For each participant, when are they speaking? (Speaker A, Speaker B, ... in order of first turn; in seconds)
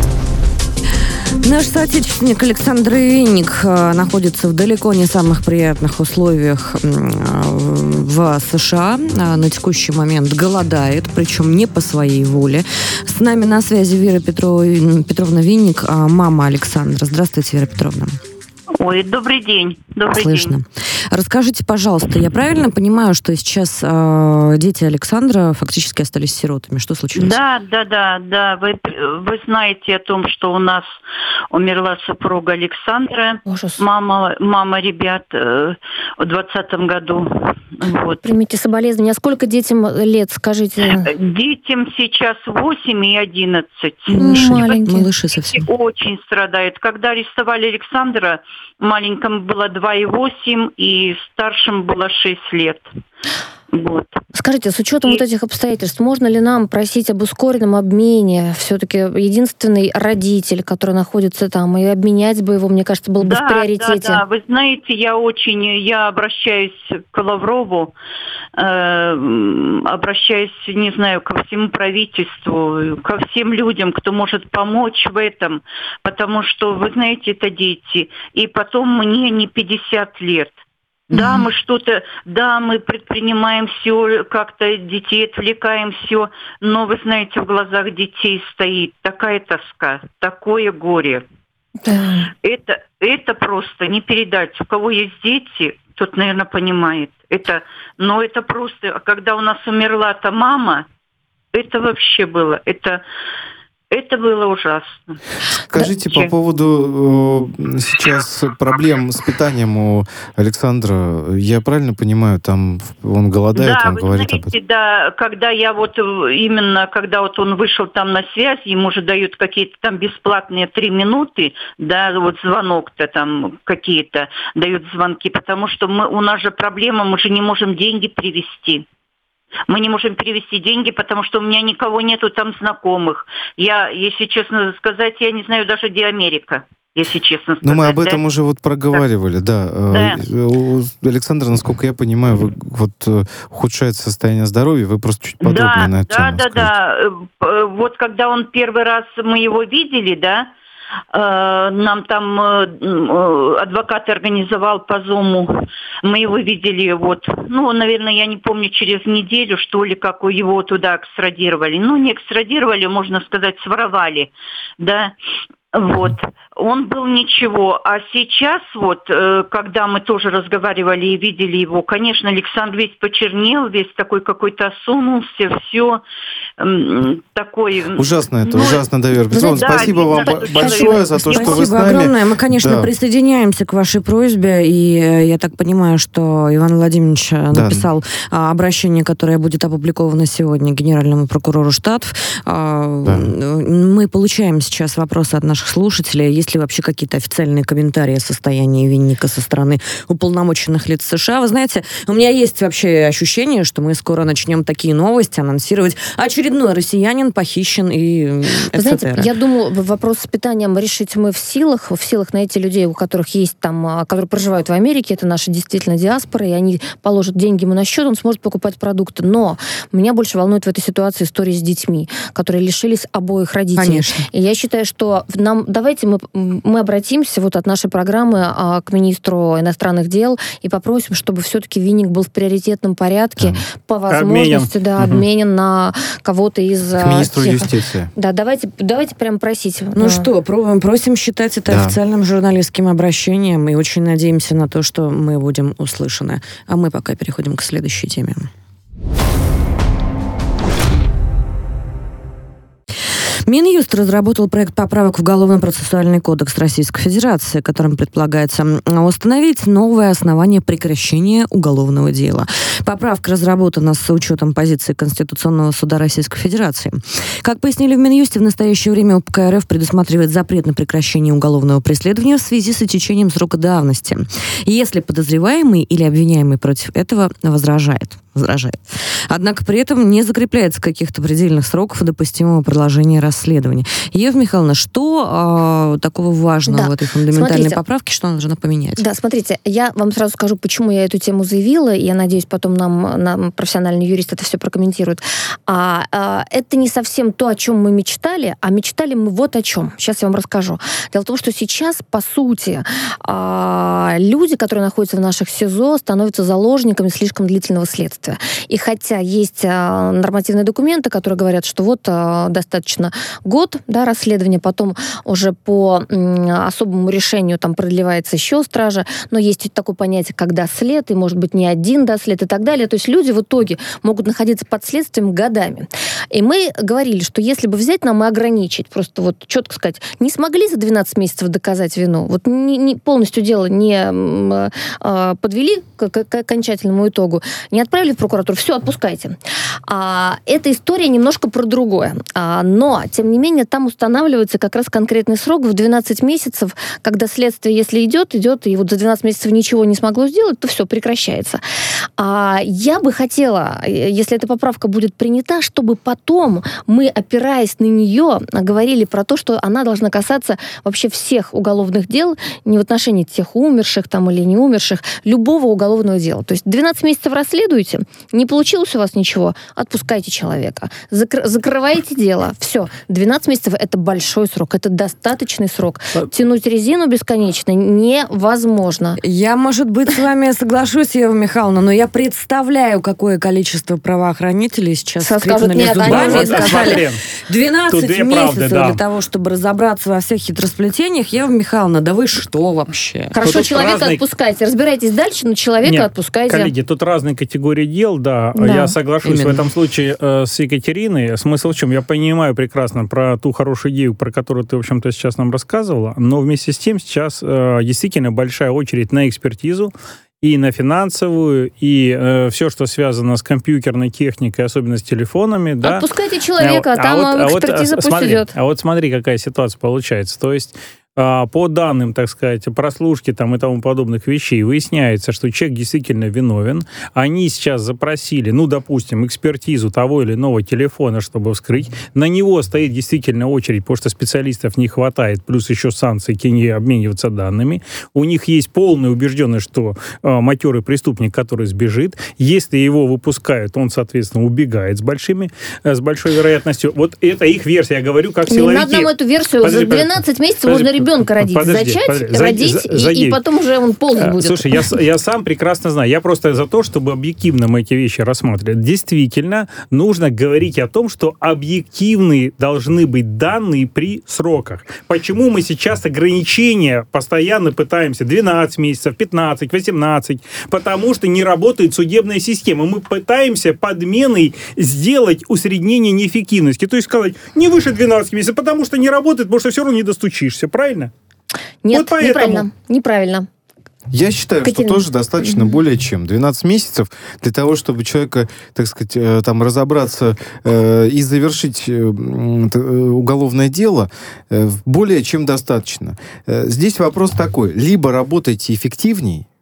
Speaker A: 1.4-18.2, 20.1-27.4, 44.1-45.6, 181.3-209.3, 223.8-224.2, 239.9-248.5, 253.5-289.0, 379.2-393.4, 399.2-399.6
Speaker B: 18.8-20.5, 27.1-30.9, 31.5-38.2, 41.0-44.7, 45.4-52.9, 53.7-54.2, 63.2-67.9, 68.5-91.2, 92.4-100.8, 101.5-103.0, 103.9-105.2, 113.5-128.8, 129.7-138.2, 139.9-140.2, 145.4-150.5, 151.1-155.5, 156.0-165.1, 165.7-176.0, 176.6-181.6
Speaker C: 33.5-33.8, 38.2-41.1, 44.2-45.1, 54.3-64.2, 81.1-81.4, 91.8-92.3, 179.3-181.5, 208.7-240.3, 286.7-287.8, 289.0-351.6, 352.2-379.2, 385.2-387.0, 393.3-396.7, 398.5-398.9, 415.8-418.5, 448.5-455.0, 481.8-483.5, 484.6-485.7
Speaker D: 105.7-114.5, 137.6-146.7, 177.9-182.9, 187.5-187.9, 193.0-193.3, 237.0-238.1, 241.7-241.9, 484.1-499.4
Speaker E: 234.1-234.7, 386.0-387.2, 387.9-389.0, 393.4-394.2, 395.8-416.1, 416.6-449.1, 449.6-453.4, 454.2-481.1, 481.9-482.6